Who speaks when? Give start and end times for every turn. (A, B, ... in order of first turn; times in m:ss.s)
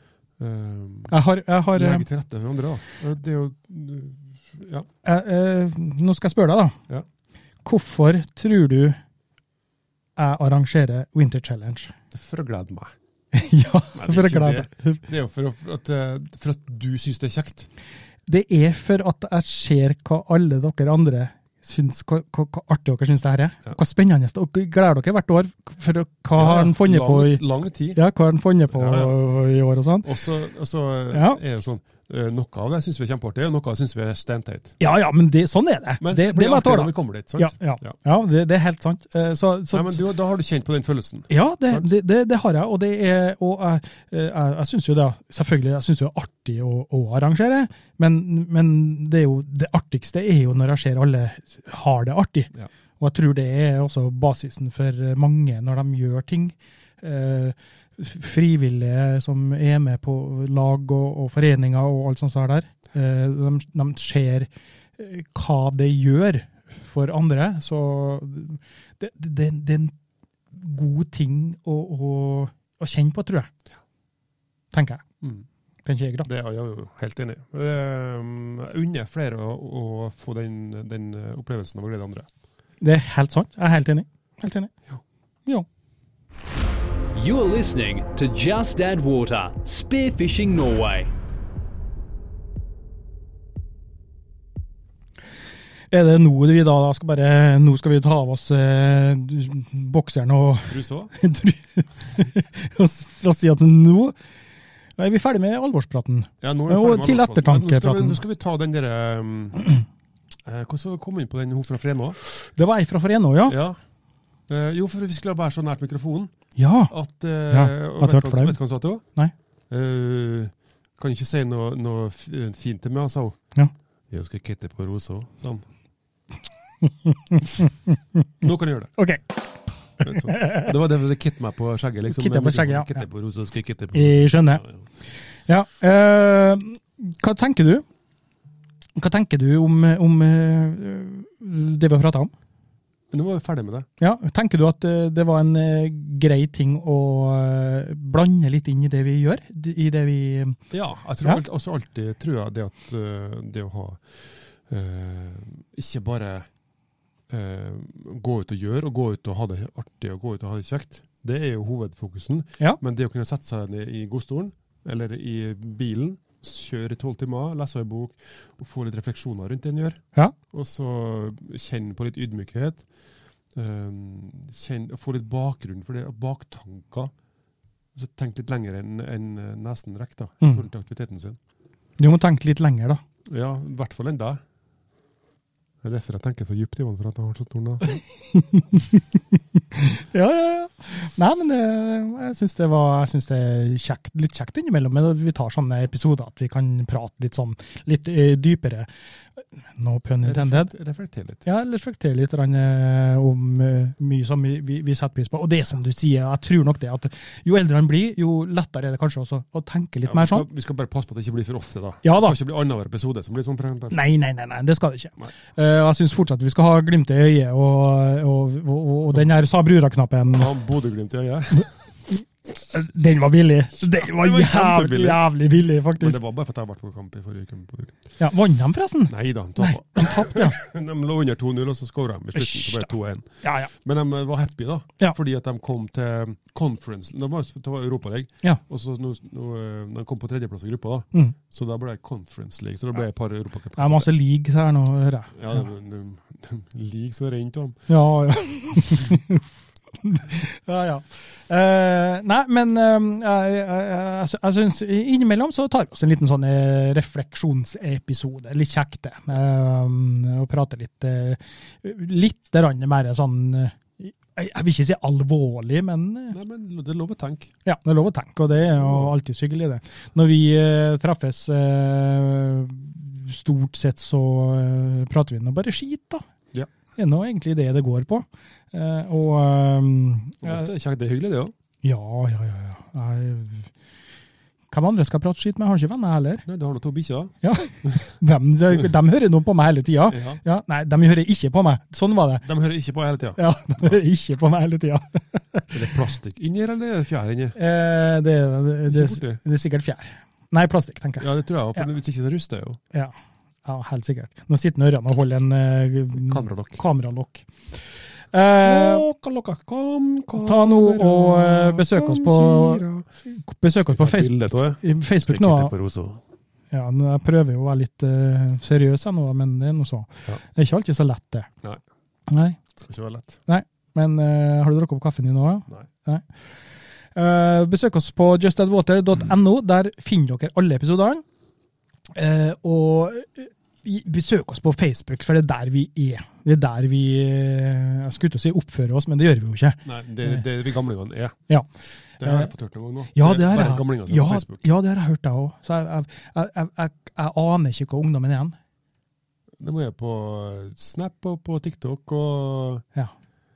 0:00.4-0:01.1 A
0:01.1-0:02.1 B
0:01.7-0:04.9 A
0:05.0-0:06.8 B
0:07.6-0:09.0 B
0:10.2-0:11.9 B
0:12.1-0:12.9 A
0:13.3-0:15.0 B
0:14.0-0:17.7 A
0:18.3-0:27.4 B
0:26.4-0:28.0 A
0:27.9-0:30.1 B
0:28.7-0:29.2 A
0:30.0-0:34.8 A
0:31.1-0:31.4 B
0:34.8-0:40.0 B
0:36.0-0:38.0 A
0:39.7-0:41.9 A
0:41.3-1:10.0 B
1:10.5-1:13.5 B
1:14.7-1:15.0 B
1:15.8-1:16.3 B
1:16.2-1:22.3 A
1:22.8-1:24.7 B
1:27.1-1:31.1 C
1:35.9-1:44.2 B
1:40.6-1:41.1 A
1:45.0-1:48.2 B
1:46.4-1:49.6 A
1:50.4-1:52.2 A
1:52.4-1:53.6 B
1:53.5-1:53.8 A
1:54.5-1:56.3 A
1:56.6-1:56.9 B
1:56.9-1:59.0 A
1:57.5-1:58.6 B
1:59.7-2:03.4 A
2:04.1-2:05.6 A
2:06.8-2:08.2 B
2:08.4-2:08.9 A
2:09.0-2:09.2 B
2:10.0-2:10.7 B
2:10.0-2:14.8 A
2:12.1-2:13.0 B
2:13.9-2:14.6 B
2:15.5-2:17.8 B
2:19.0-2:22.3 B
2:23.1-2:23.9 A
2:24.0-2:30.6 B
2:30.7-2:36.5 A
2:37.3-2:52.8 A
2:53.5-2:57.1 A
2:58.0-3:01.4 A
3:02.0-3:03.0 B
3:03.3-3:04.4 A
3:05.8-3:07.9 A
3:07.9-3:18.9 B
3:19.8-3:20.7 B
3:20.2-3:21.5 A
3:21.4-3:30.5 B
3:30.1-3:34.0 A
3:32.0-3:32.4 B
3:33.9-3:40.5 B
3:40.3-3:41.7 A
3:42.6-3:46.2 B
3:43.9-3:45.3 A
3:46.0-3:48.0 A
3:48.2-3:50.6 B
3:49.1-4:04.1 A
3:52.4-3:53.7 B
4:03.8-4:05.6 B
4:05.4-4:07.9 A
4:07.9-4:26.4 B
4:26.3-4:27.5 A
4:27.6-4:36.2 B
4:28.7-4:29.1 A
4:37.0-4:40.7 B
4:40.4-4:41.5 A
4:41.8-4:43.7 B
4:44.7-4:46.4 B
4:46.5-4:48.1 A
4:47.4-4:52.4 B
4:50.1-4:50.4 A
4:52.4-4:54.0 A
4:53.4-4:55.8 B
4:55.7-4:57.6 A
4:57.6-5:01.3 B
4:58.9-4:59.4 A
5:01.2-5:02.8 A
5:03.6-5:09.0 B
5:06.3-5:06.8 A
5:08.6-5:13.1 A
5:10.4-5:15.8 B
5:13.9-5:16.2 A
5:16.7-5:21.5 B
5:22.3-5:22.6 B
5:22.7-5:23.4 A
5:23.5-5:26.3 B
5:27.1-5:31.2 B
5:32.2-5:40.4 B
5:39.8-5:41.4 A
5:42.2-5:44.6 A
5:42.2-5:42.5 B
5:43.1-5:48.6 B
5:49.6-5:52.8 A